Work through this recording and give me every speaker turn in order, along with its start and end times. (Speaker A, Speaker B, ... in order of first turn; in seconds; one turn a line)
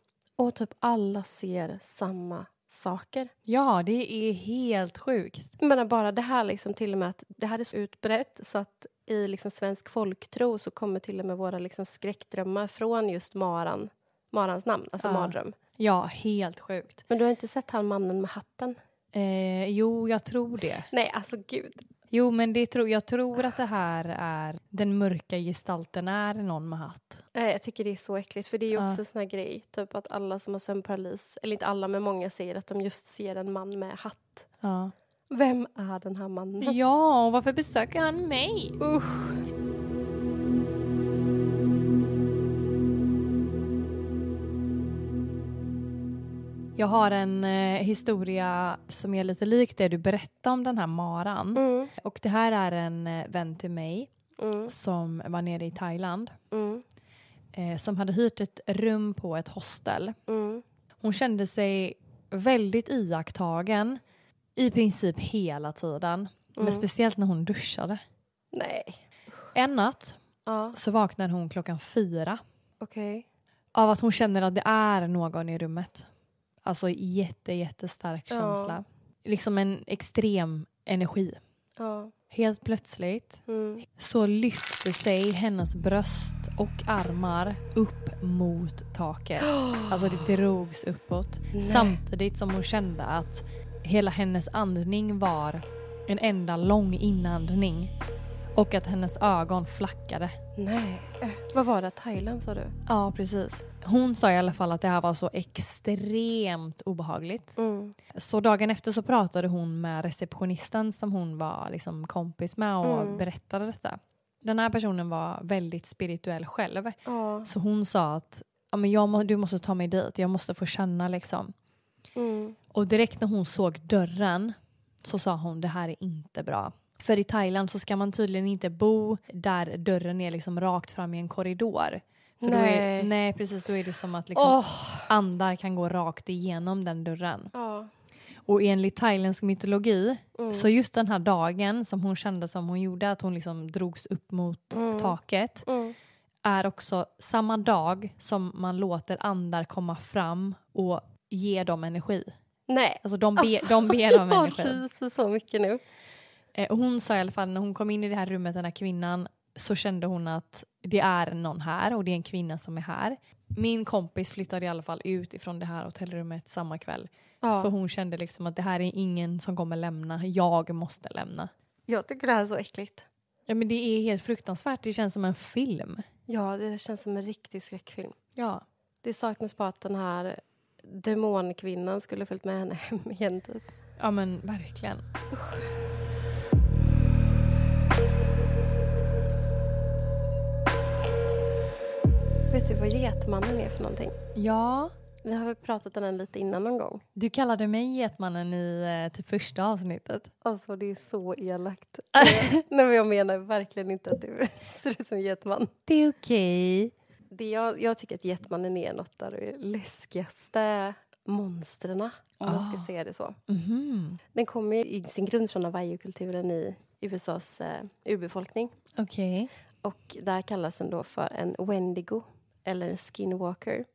Speaker A: 0.4-3.3
Speaker B: 3.5-5.5
Speaker A: 5.6-15.6
Speaker B: 15.0-17.0
Speaker A: 17.1-18.8
Speaker B: 19.1-20.9
Speaker A: 20.9-21.9
Speaker B: 22.1-27.2
Speaker A: 27.3-34.5
Speaker B: 28.7-29.0
Speaker B: 34.6-34.9
Speaker A: 35.3-36.8
Speaker B: 36.6-38.8
Speaker A: 38.8-39.4
Speaker B: 46.8-54.1
Speaker A: 51.5-51.9
Speaker A: 54.4-54.7
Speaker B: 54.7-56.4
Speaker A: 56.5-56.8
Speaker B: 57.5-60.2
Speaker A: 60.3-60.6
Speaker B: 61.0-64.0
Speaker B: 64.6-68.0
Speaker A: 66.6-66.9
Speaker A: 68.5-69.0
Speaker B: 69.5-70.2
Speaker A: 70.5-70.8
Speaker B: 70.7-72.4
Speaker A: 72.8-73.3
Speaker B: 73.7-76.1
Speaker B: 76.6-81.4
Speaker A: 78.3-78.8
Speaker A: 81.8-82.1
Speaker B: 82.3-97.9
Speaker A: 83.5-83.8
Speaker A: 89.4-90.0
Speaker A: 91.5-92.0
Speaker B: 98.5-100.4
Speaker A: 100.6-102.7
Speaker B: 102.9-107.5
Speaker A: 107.6-108.0
Speaker B: 108.1-121.5
Speaker A: 112.8-113.2
Speaker A: 117.1-117.5
Speaker A: 122.2-122.6
Speaker B: 122.7-137.5
Speaker A: 132.4-133.1
Speaker A: 134.4-135.1
Speaker A: 137.5-137.9
Speaker B: 138.5-145.7
Speaker A: 140.4-140.7
Speaker A: 144.7-145.9
Speaker B: 146.4-152.3
Speaker A: 152.7-155.8
Speaker B: 153.0-154.8
Speaker B: 156.6-171.5
Speaker A: 167.4-167.7
Speaker A: 171.9-173.1
Speaker B: 173.5-176.0
Speaker A: 176.3-178.2
Speaker B: 178.4-178.6
Speaker A: 179.0-183.7
Speaker B: 184.0-185.0
Speaker A: 185.3-185.7
Speaker A: 192.5-194.2
Speaker B: 194.3-194.9
Speaker A: 195.2-197.0
Speaker B: 197.2-200.3
Speaker A: 200.4-205.7
Speaker B: 202.2-202.5
Speaker B: 205.9-206.9
Speaker A: 207.3-213.4
Speaker B: 212.4-212.9
Speaker B: 213.5-214.2
Speaker A: 214.3-218.7
Speaker B: 219.0-219.5
Speaker A: 219.8-223.9